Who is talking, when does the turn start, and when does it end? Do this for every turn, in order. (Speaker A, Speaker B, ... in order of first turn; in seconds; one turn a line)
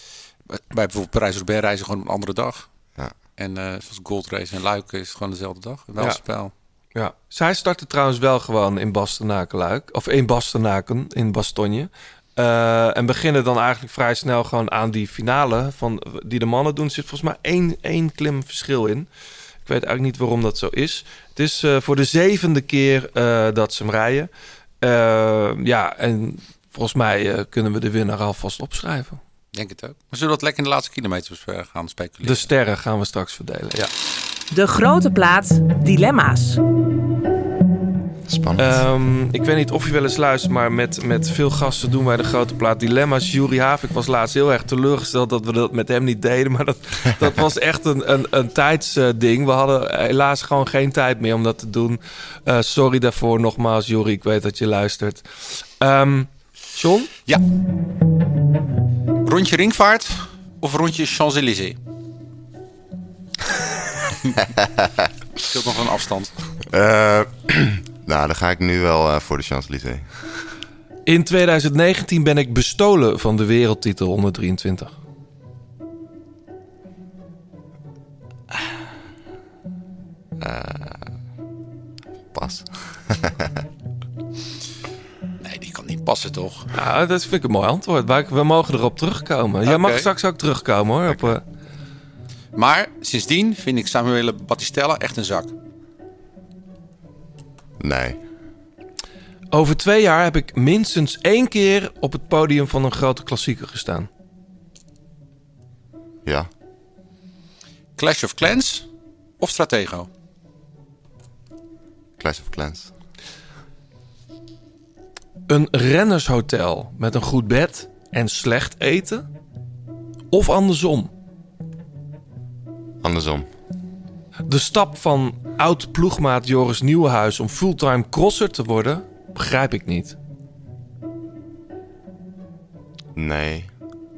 Speaker A: 0.5-2.7
Speaker A: 3.4-6.5
Speaker B: 6.9-19.1
Speaker B: 19.6-24.3
Speaker B: 24.8-29.2
Speaker A: 29.5-32.5
Speaker B: 32.2-33.9
Speaker C: 34.5-36.6
Speaker D: 38.3-38.8
Speaker B: 38.6-57.1
Speaker A: 59.2-61.8
Speaker D: 64.5-65.1
Speaker A: 65.4-66.3
Speaker D: 66.7-70.1
Speaker B: 71.1-74.9
Speaker D: 80.4-81.1
Speaker D: 82.3-83.6
Speaker A: 85.4-86.7
Speaker B: 86.7-91.4
Speaker A: 89.7-90.1
Speaker A: 92.5-95.5
Speaker D: 97.8-98.2
Speaker B: 99.5-104.1
Speaker D: 106.2-106.5
Speaker A: 108.0-108.9
Speaker A: 109.4-110.1
Speaker D: 112.2-112.9
Speaker B: 115.5-119.2
Speaker B: 120.3-121.1
Speaker D: 123.0-123.5
Speaker B: 124.5-130.2
Speaker D: 133.1-133.7